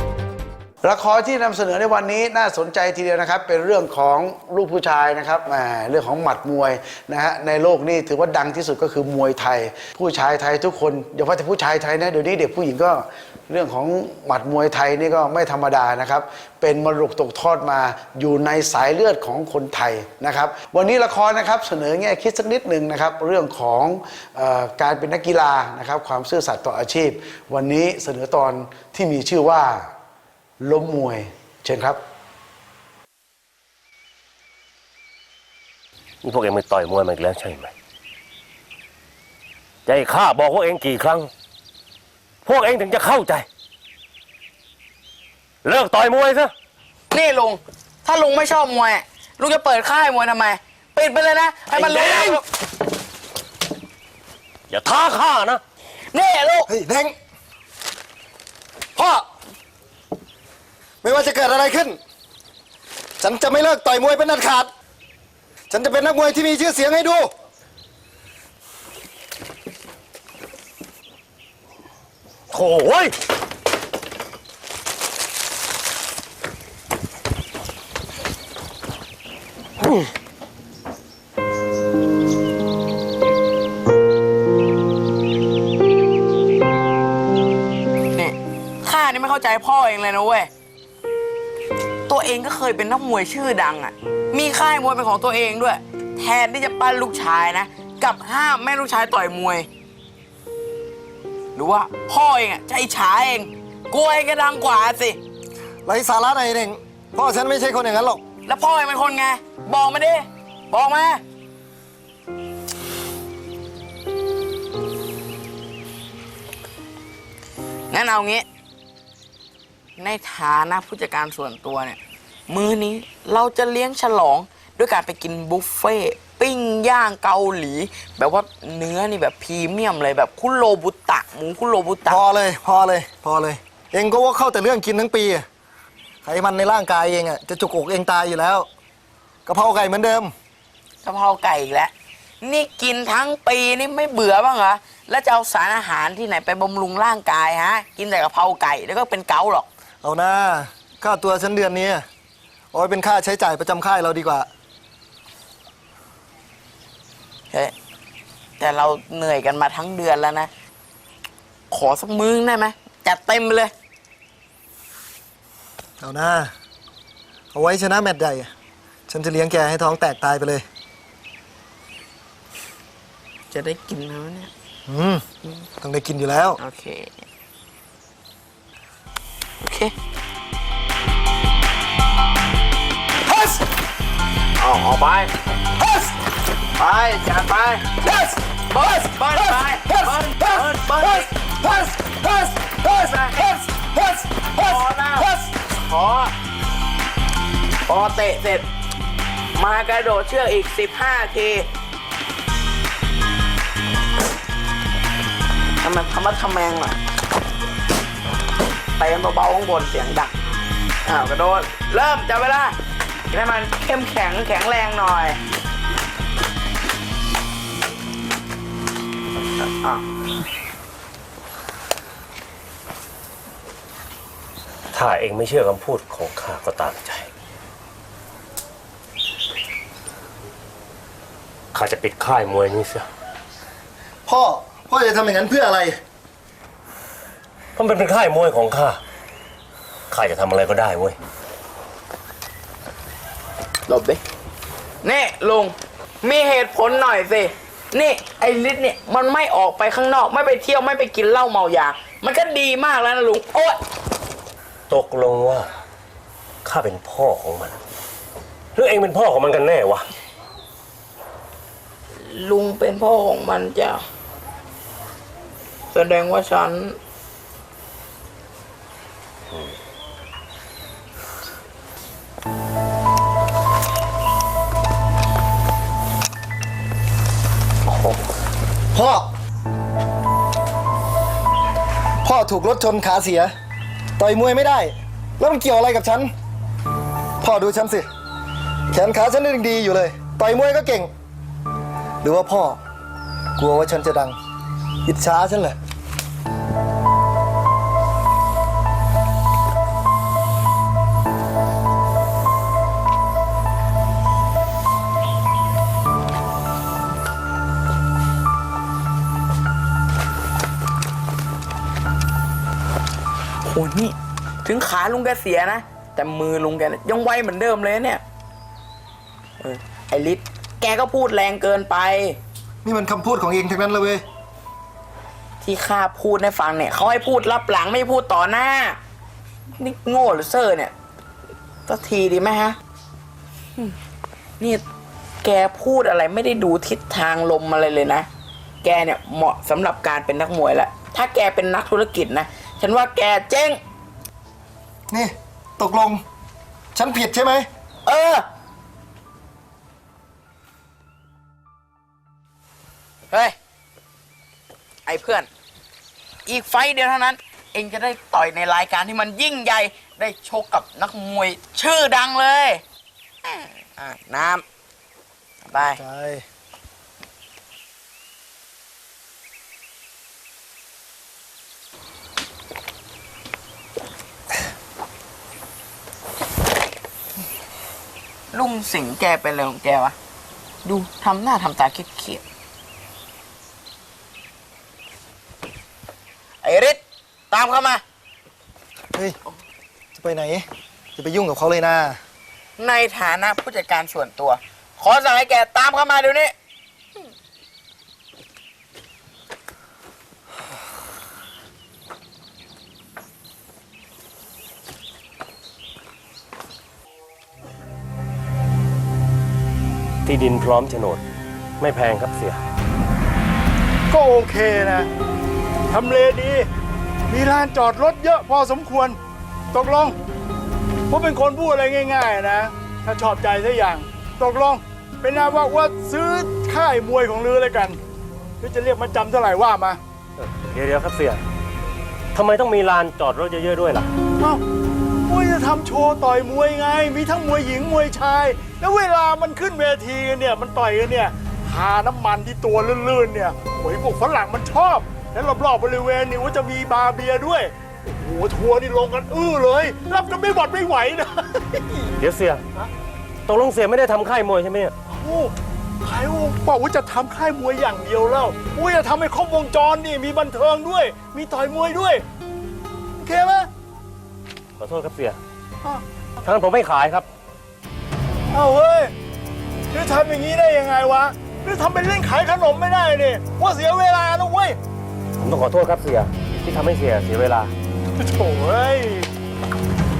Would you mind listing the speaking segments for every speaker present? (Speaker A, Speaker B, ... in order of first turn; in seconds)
Speaker A: 0.8-29.9, 30.6-32.0
Speaker B: 36.2-37.7, 39.9-41.3, 42.4-43.5, 45.6-46.5, 51.7-52.4, 54.7-55.6, 72.5-73.1, 79.8-80.1, 224.9-227.3, 231.7-233.1, 237.8-239.0, 240.1-241.2, 254.9-255.7, 256.6-257.8, 258.8-260.1, 277.9-278.2, 410.2-411.2, 411.8-412.6, 430.4-431.4, 432.3-434.1, 452.2-452.8, 453.5-454.9, 464.8-465.4, 466.4-467.2, 475.4-477.7
Speaker C: 47.1-52.4, 56.1-56.7, 88.1-90.5, 92.1-99.7, 101.5-105.2, 108.5-111.2, 117.9-118.5, 120.0-132.2, 141.0-149.7, 158.6-160.5, 161.7-163.7, 173.5-174.5, 176.6-177.2, 179.6-179.9, 184.6-185.3, 186.8-188.0, 188.7-191.5, 192.9-193.4, 194.6-196.3, 197.9-198.7, 199.5-201.7, 205.8-207.0, 209.0-210.3, 211.0-212.8, 213.3-215.4, 243.9-244.2, 245.0-253.8, 262.2-264.0, 265.9-267.0, 313.6-318.2, 319.6-322.4, 325.6-329.0, 329.8-330.9, 331.9-332.8, 335.4-338.3, 338.8-343.8, 348.1-348.5, 353.3-353.5, 355.0-355.5, 356.4-362.8, 363.4-364.6, 365.7-366.0, 378.5-380.1, 380.9-382.4, 386.6-388.0, 392.8-396.5
Speaker D: 56.7-57.1, 59.0-59.2, 61.0-62.0, 63.2-64.7, 65.7-67.3, 105.8-108.2, 132.1-135.4, 136.2-138.7, 139.5-140.3, 150.0-152.1, 152.7-154.5, 166.0-166.5, 167.5-168.5, 169.1-170.6, 174.9-175.2, 175.8-176.6, 185.8-186.1, 188.1-188.4, 189.3-195.5, 234.3-236.0, 278.9-279.3, 282.2-283.5, 284.2-286.3, 287.4-288.0, 288.9-291.1, 292.2-292.8, 293.6-294.4, 295.0-295.8, 322.8-324.2, 345.1-346.2, 346.9-347.7, 365.8-366.4, 390.1-392.2
Speaker E: 414.1-415.1, 415.9-416.7, 417.3-419.2, 419.7-420.2, 421.1-428.0, 428.6-430.0, 435.3-452.1, 455.1-455.5, 456.0-462.2, 463.2-463.7, 468.5-469.1, 469.9-474.8, 478.2-479.3